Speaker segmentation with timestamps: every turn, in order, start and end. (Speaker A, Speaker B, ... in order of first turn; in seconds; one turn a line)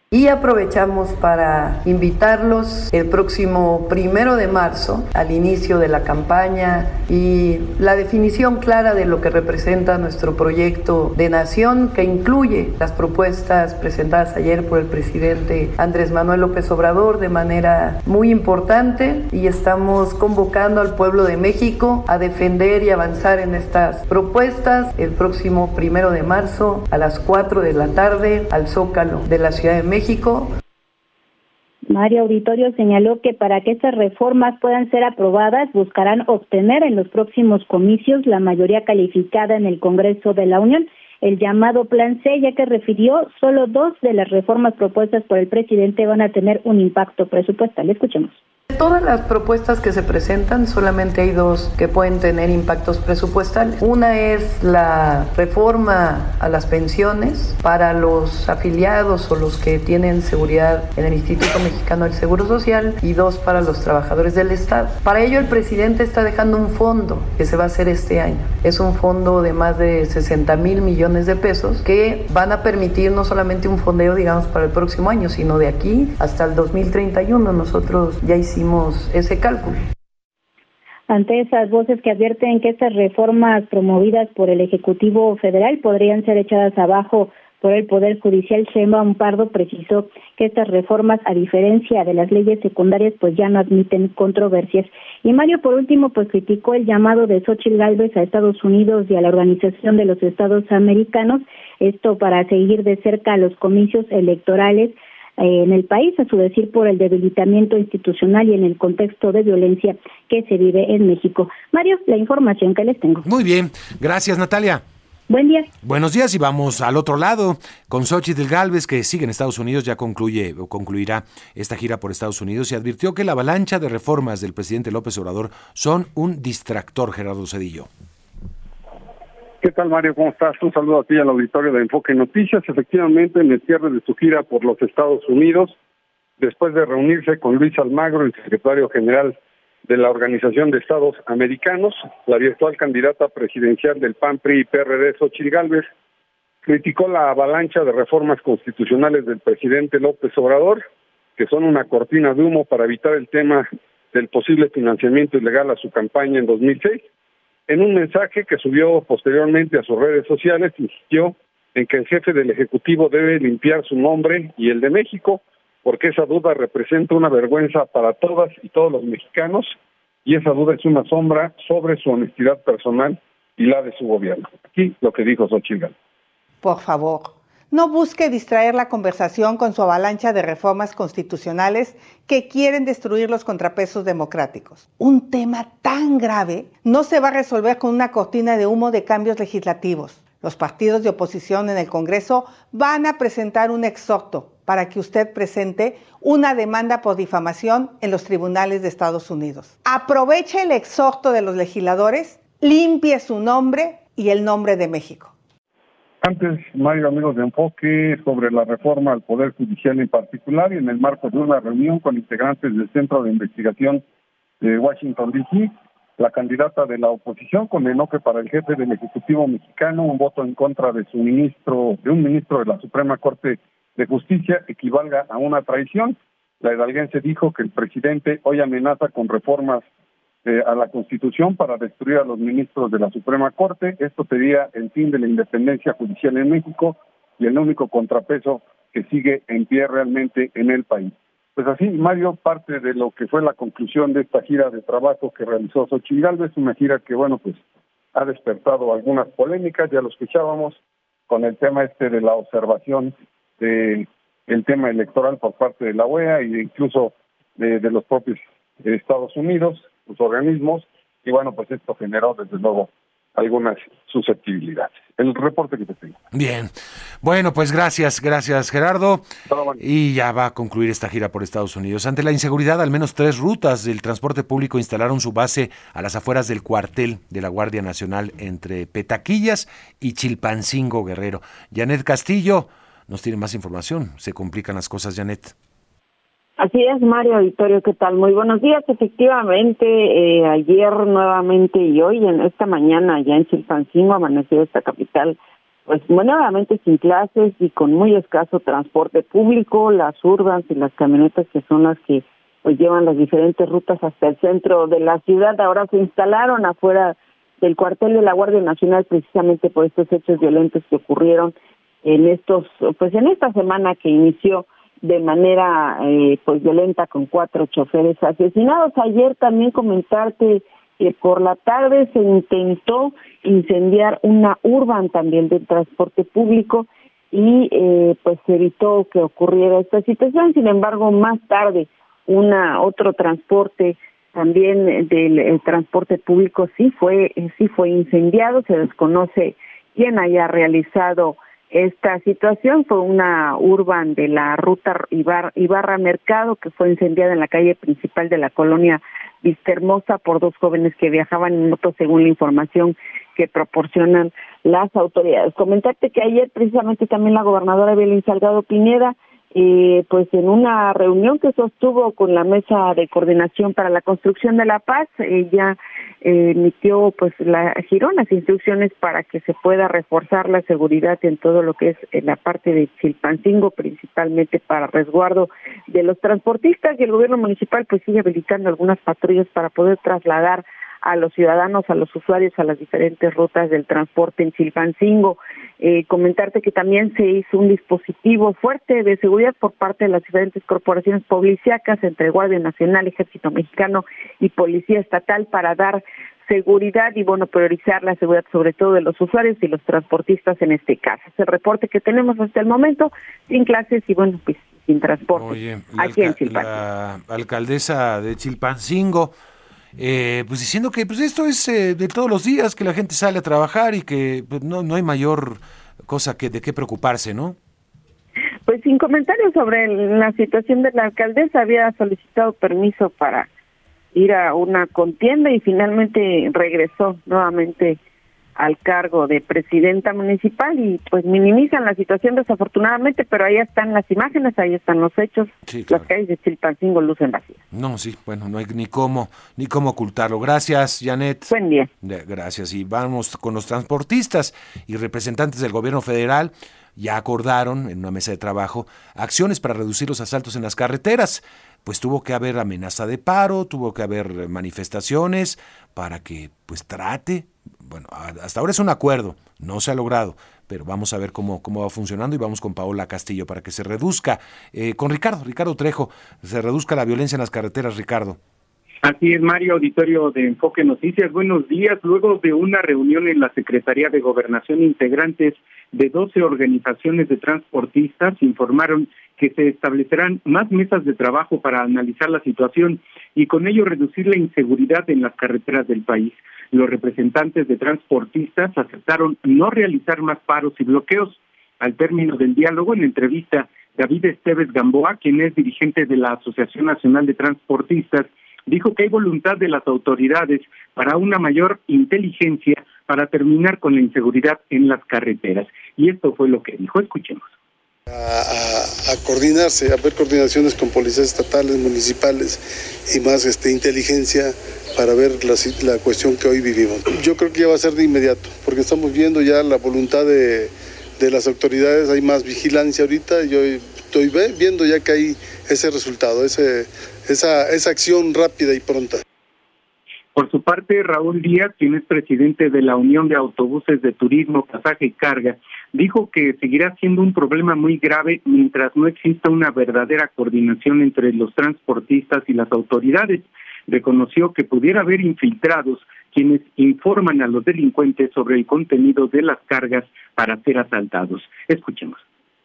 Speaker A: 0.1-30.5
Speaker B: 31.9-48.4
Speaker A: 48.7-79.8
Speaker B: 81.1-113.2
Speaker C: 113.2-114.8
Speaker B: 115.3-115.7
Speaker C: 115.8-127.9
Speaker D: 129.6-135.8
Speaker D: 136.4-139.4
Speaker D: 139.9-145.9
Speaker D: 146.6-150.8
Speaker D: 151.4-157.0
Speaker D: 157.7-175.9
Speaker E: 176.6-205.3
Speaker D: 206.2-214.0
Speaker D: 214.6-229.8
Speaker D: 230.4-247.6
Speaker D: 248.1-266.2
Speaker C: 266.3-269.2
Speaker D: 269.5-269.8
Speaker C: 269.8-285.5
Speaker F: 286.6-406.8
Speaker C: 405.3-409.3
Speaker C: 410.0-417.6
Speaker F: 418.7-423.5
Speaker F: 424.1-428.0
Speaker F: 428.6-437.6
Speaker C: 435.7-436.1
Speaker C: 437.7-468.4
Speaker F: 441.5-441.9
Speaker G: 469.0-507.5
Speaker H: 508.1-529.2
Speaker G: 530.4-552.2